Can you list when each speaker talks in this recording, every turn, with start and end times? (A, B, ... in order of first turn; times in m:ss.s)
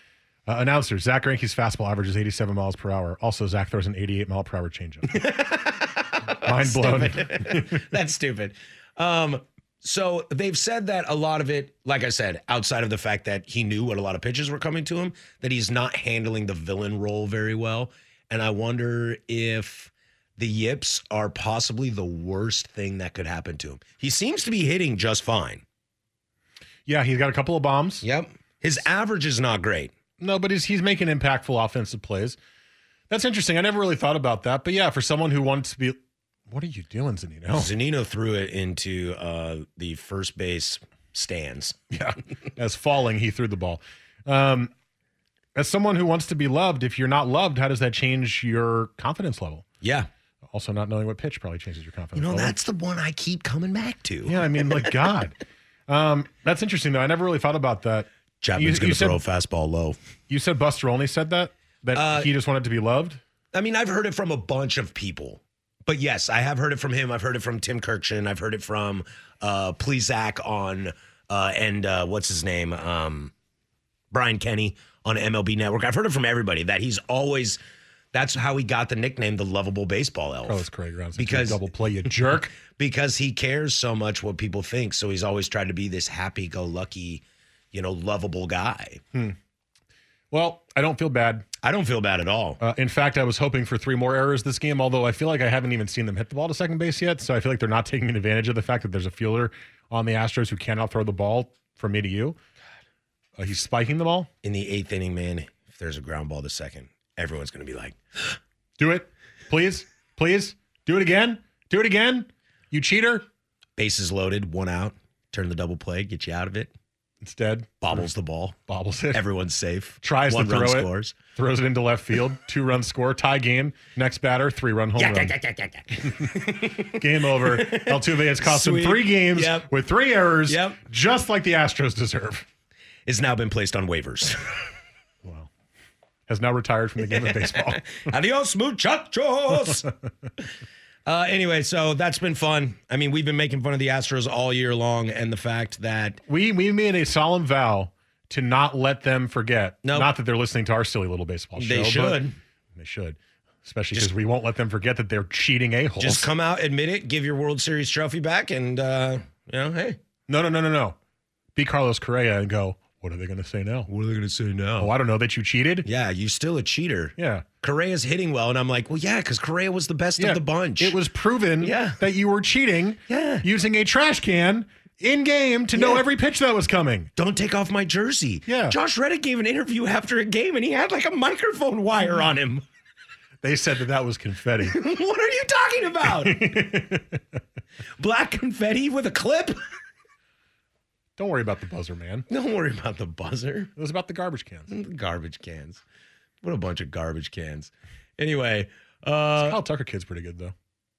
0:00.5-0:05.3 A
0:05.1-0:25.6 B
0:06.4-0:07.8 A
0:26.9-0:28.1 A
0:28.0-0:29.9 B
0:30.2-0:32.4 A
0:33.1-0:37.7 A
0:37.5-0:41.8 B
0:41.9-0:44.7 A
0:45.6-0:49.7 A
0:49.8-0:50.1 B
0:50.5-0:52.6 A
0:52.2-0:54.6 B
0:54.2-0:55.4 A
0:55.9-0:59.2 A
0:58.4-1:00.0 B
1:00.3-1:03.2 A
1:01.9-1:02.3 B
1:03.5-1:13.3 B
1:14.1-1:17.6 B
1:18.1-1:21.6 B
1:20.4-1:22.5 A
1:22.5-1:29.0 B
1:30.3-1:31.5 A
1:31.6-1:32.6 B
1:32.6-1:42.4 A
1:43.4-1:44.3 A
1:44.4-1:48.0 B
1:48.8-1:53.3 A
1:53.8-1:56.7 B
1:57.2-1:58.0 A
1:57.8-1:58.6 B
1:58.7-1:59.2 A
1:59.1-2:01.2 B
2:00.0-2:05.4 A
2:05.0-2:09.7 B
2:06.1-2:12.5 A
2:10.5-2:10.8 B
2:13.1-2:14.6 B
2:15.2-2:15.5 A
2:16.3-2:17.8 A
2:17.1-2:19.9 B
2:21.1-2:26.2 B
2:26.3-2:32.2 A
2:29.8-2:30.1 B
2:31.6-2:32.4 B
2:32.8-2:36.3 A
2:36.0-2:40.0 B
2:40.3-2:41.0 A
2:41.6-2:43.9 A
2:43.9-2:44.9 B
2:44.8-2:45.9 A
2:45.8-2:51.0 B
2:47.2-2:47.5 A
2:50.2-2:57.1 A
2:51.6-2:52.0 B
2:53.1-2:53.5 B
2:55.8-2:56.0 B
2:57.2-3:02.6 B
2:58.5-2:58.8 A
3:03.4-3:04.8 A
3:04.6-3:06.5 B
3:06.1-3:07.2 A
3:08.0-3:09.6 B
3:11.2-3:12.3 A
3:12.3-3:13.7 B
3:13.8-3:14.7 A
3:14.7-3:15.8 B
3:16.4-3:19.6 B
3:19.4-3:20.5 A